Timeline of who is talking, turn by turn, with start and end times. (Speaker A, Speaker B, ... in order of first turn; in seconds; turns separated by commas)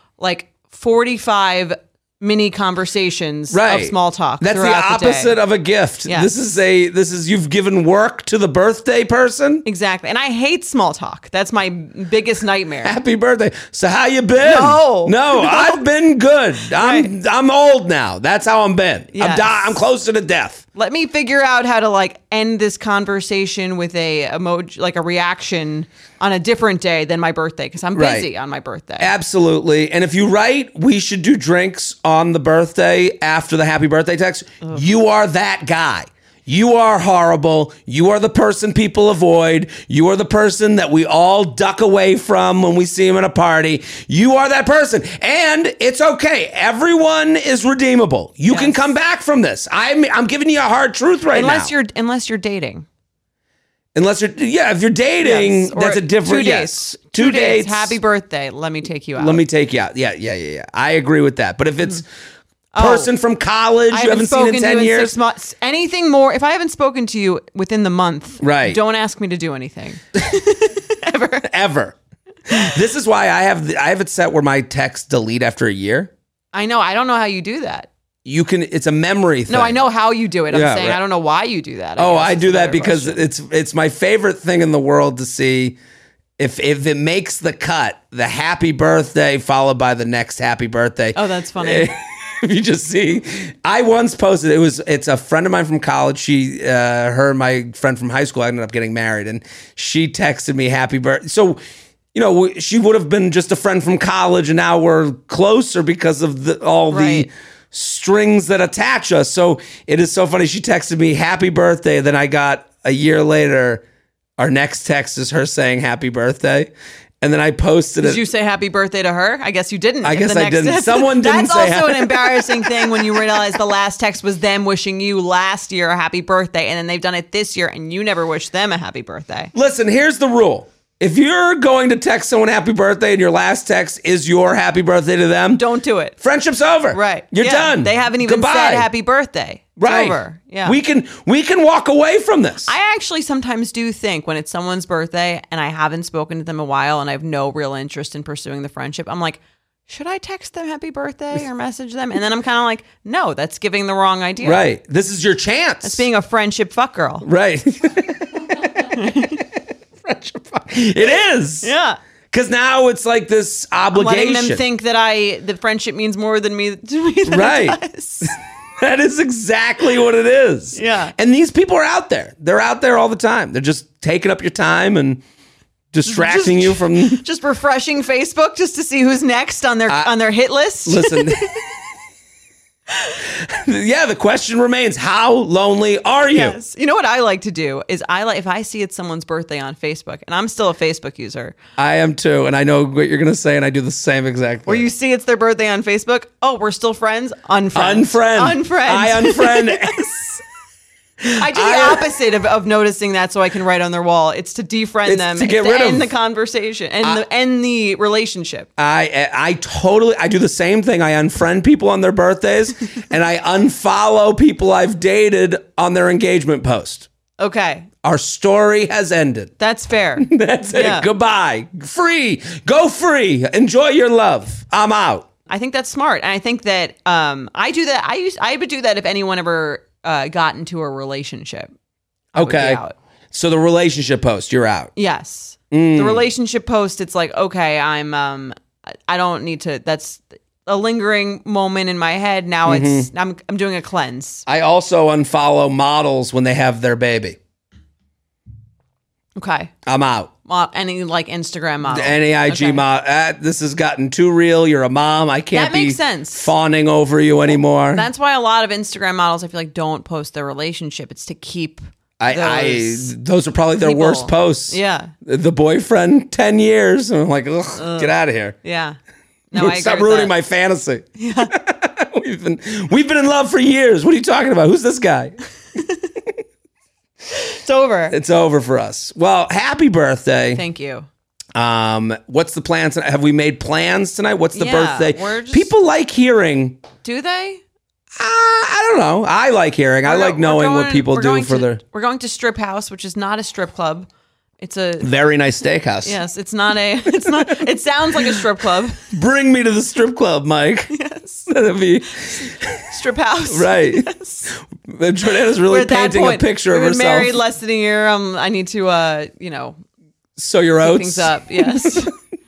Speaker A: 0.2-5.4, Speaker B: 3.5-9.6, Speaker A: 6.0-6.3, Speaker A: 9.6-13.0, Speaker B: 12.8-20.6, Speaker A: 14.4-15.8, Speaker A: 16.7-17.1, Speaker A: 19.1-19.8, Speaker A: 20.8-29.1, Speaker B: 27.9-28.3, Speaker B: 29.0-51.7, Speaker A: 48.5-48.9, Speaker A: 51.3-52.9, Speaker B: 53.9-58.0, Speaker A: 55.2-59.4, Speaker B: 59.2-62.0, Speaker A: 62.7-63.1, Speaker B: 62.8-65.2, Speaker A: 63.9-71.5, Speaker B: 68.4-68.8, Speaker B: 71.4-71.9, Speaker B: 72.5-76.1, Speaker A: 76.5-77.9, Speaker B: 78.2-79.8, Speaker A: 79.5-83.2, Speaker B: 80.5-81.0, Speaker B: 82.0-85.8, Speaker B: 86.4-101.6, Speaker A: 91.1-91.9, Speaker B: 102.1-113.8, Speaker A: 106.9-107.3, Speaker B: 114.4-116.7, Speaker B: 117.2-118.2, Speaker A: 118.0-129.5, Speaker B: 120.0-123.0, Speaker B: 129.5-135.6, Speaker A: 135.5-136.2, Speaker B: 136.2-138.9, Speaker A: 136.9-140.8, Speaker B: 139.8-142.7, Speaker A: 142.7-154.6, Speaker B: 154.4-156.0, Speaker A: 155.8-157.2, Speaker B: 157.2-159.4, Speaker A: 158.9-159.4, Speaker B: 160.0-161.7, Speaker A: 161.6-162.0, Speaker B: 162.3-164.6, Speaker A: 163.9-168.3, Speaker B: 167.3-175.2, Speaker A: 170.8-171.1, Speaker B: 175.9-177.2, Speaker A: 176.1-181.6, Speaker B: 180.8-181.7, Speaker B: 183.3-186.6, Speaker A: 186.3-191.6, Speaker B: 191.8-194.9, Speaker A: 194.7-200.0, Speaker B: 197.8-200.4, Speaker B: 201.2-202.1, Speaker A: 201.3-208.7, Speaker B: 205.0-206.1, Speaker B: 208.8-217.1, Speaker A: 217.4-217.9, Speaker B: 218.0-219.5, Speaker A: 219.6-221.1, Speaker B: 220.2-225.2, Speaker A: 225.5-231.7, Speaker A: 232.3-232.9, Speaker B: 232.4-234.9, Speaker A: 235.0-244.4, Speaker B: 235.7-236.3, Speaker B: 242.6-243.1, Speaker B: 244.5-247.4, Speaker A: 249.4-249.7, Speaker B: 249.9-250.3, Speaker A: 250.4-252.8, Speaker B: 251.9-258.1, Speaker A: 255.5-256.5, Speaker A: 257.5-263.1, Speaker B: 262.2-268.6, Speaker A: 263.8-265.1, Speaker A: 267.8-268.1, Speaker A: 268.6-269.0, Speaker A: 269.5-270.3, Speaker B: 269.5-275.4, Speaker A: 271.2-271.5, Speaker A: 275.8-276.1, Speaker A: 277.3-278.1, Speaker B: 278.1-280.6, Speaker A: 280.5-281.1, Speaker B: 281.5-286.8, Speaker A: 284.5-285.7, Speaker A: 287.0-287.6, Speaker B: 288.1-291.8, Speaker A: 290.0-294.1, Speaker A: 294.6-295.1, Speaker B: 295.0-296.2, Speaker A: 296.0-299.1, Speaker B: 297.1-297.6, Speaker B: 298.1-298.4, Speaker B: 299.1-300.9, Speaker A: 300.9-301.5, Speaker B: 301.5-302.8, Speaker A: 302.1-304.5, Speaker B: 303.5-304.1, Speaker B: 304.9-307.4, Speaker A: 305.5-309.8, Speaker B: 310.4-312.1, Speaker A: 310.8-312.1